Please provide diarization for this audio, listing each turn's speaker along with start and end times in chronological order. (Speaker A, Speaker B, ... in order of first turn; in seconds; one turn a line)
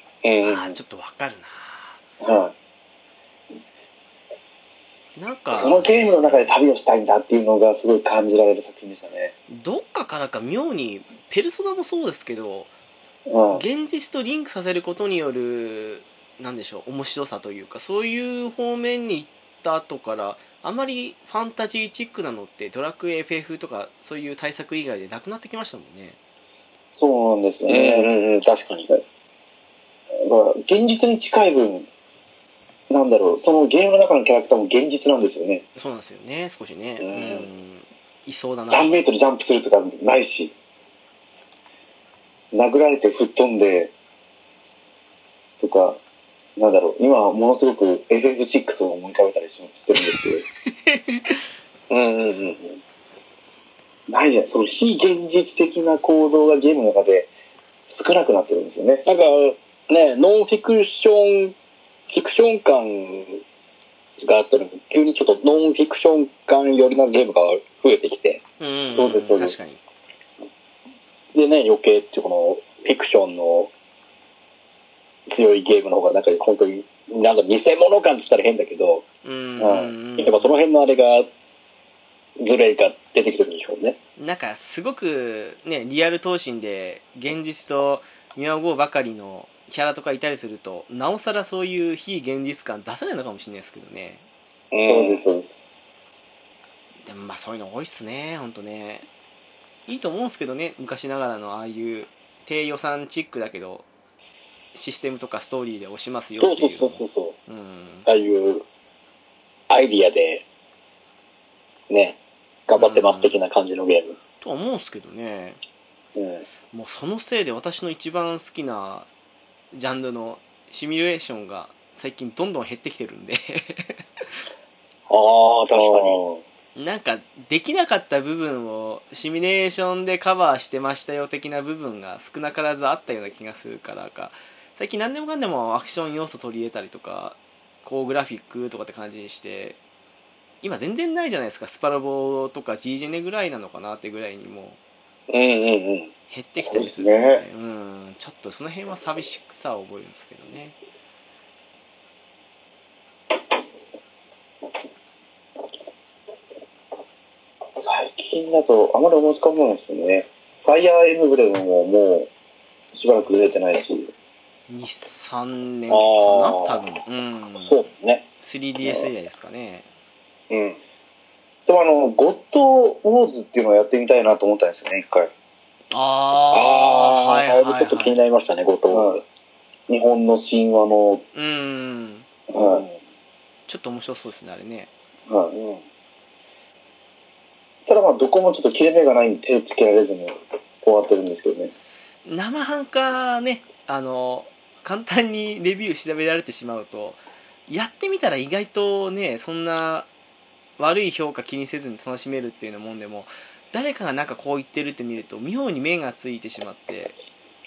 Speaker A: 0.2-0.8
Speaker B: 0.4-2.0
Speaker C: 2.2-2.5
Speaker B: 5.2-6.6
Speaker C: 5.5-9.3
Speaker B: 9.5-12.7
Speaker C: 13.3-13.7
Speaker B: 13.5-26.2
Speaker C: 26.9-28.1
Speaker A: 27.7-28.9
Speaker C: 30.2-31.9
Speaker C: 32.9-35.6
Speaker B: 35.8-38.9
Speaker A: 37.0-37.4
Speaker C: 37.1-37.4
Speaker C: 38.7-40.5
Speaker C: 42.5-43.9
Speaker C: 45.6-46.0
Speaker C: 46.6-50.4
Speaker B: 50.0-51.4
Speaker A: 51.9-52.8
Speaker C: 54.1-57.3
Speaker C: 57.9-59.0
Speaker A: 59.1-61.5
Speaker A: 62.1-63.4
Speaker A: 64.2-68.4
Speaker B: 68.6-69.8
Speaker C: 68.9-69.6
Speaker A: 71.3-73.7
Speaker A: 75.3-79.0
Speaker B: 79.2-80.6
Speaker C: 79.6-79.9
Speaker A: 80.2-81.3
Speaker A: 82.4-84.0
Speaker B: 84.2-94.2
Speaker A: 94.7-95.2
Speaker C: 94.8-95.5
Speaker B: 97.0-99.1
Speaker B: 99.9-103.9
Speaker B: 104.7-108.1
Speaker A: 106.4-107.4
Speaker A: 108.1-108.7
Speaker A: 109.7-110.4
Speaker A: 111.9-114.2
Speaker B: 112.8-113.4
Speaker B: 114.4-115.6
Speaker A: 116.2-116.4
Speaker B: 116.7-119.1
Speaker B: 119.7-124.0
Speaker A: 125.1-126.2
Speaker C: 125.7-126.4
Speaker B: 126.8-139.8
Speaker B: 140.6-144.8
Speaker A: 145.3-146.1
Speaker B: 146.3-150.8
Speaker C: 146.6-147.4
Speaker C: 157.8-162.3
Speaker C: 162.9-164.1
Speaker B: 164.7-167.9
Speaker A: 165.9-166.9
Speaker A: 167.7-168.2
Speaker B: 168.4-169.9
Speaker A: 170.5-170.8
Speaker C: 171.7-175.3
Speaker B: 175.9-178.2
Speaker A: 176.5-179.2
Speaker C: 178.9-179.2
Speaker C: 179.9-181.2
Speaker B: 181.3-182.3
Speaker C: 182.5-182.8
Speaker A: 182.5-182.9
Speaker B: 183.7-184.9
Speaker C: 185.3-185.6
Speaker A: 185.6-185.8
Speaker C: 187.9-191.7
Speaker B: 192.2-200.1
Speaker B: 200.8-207.2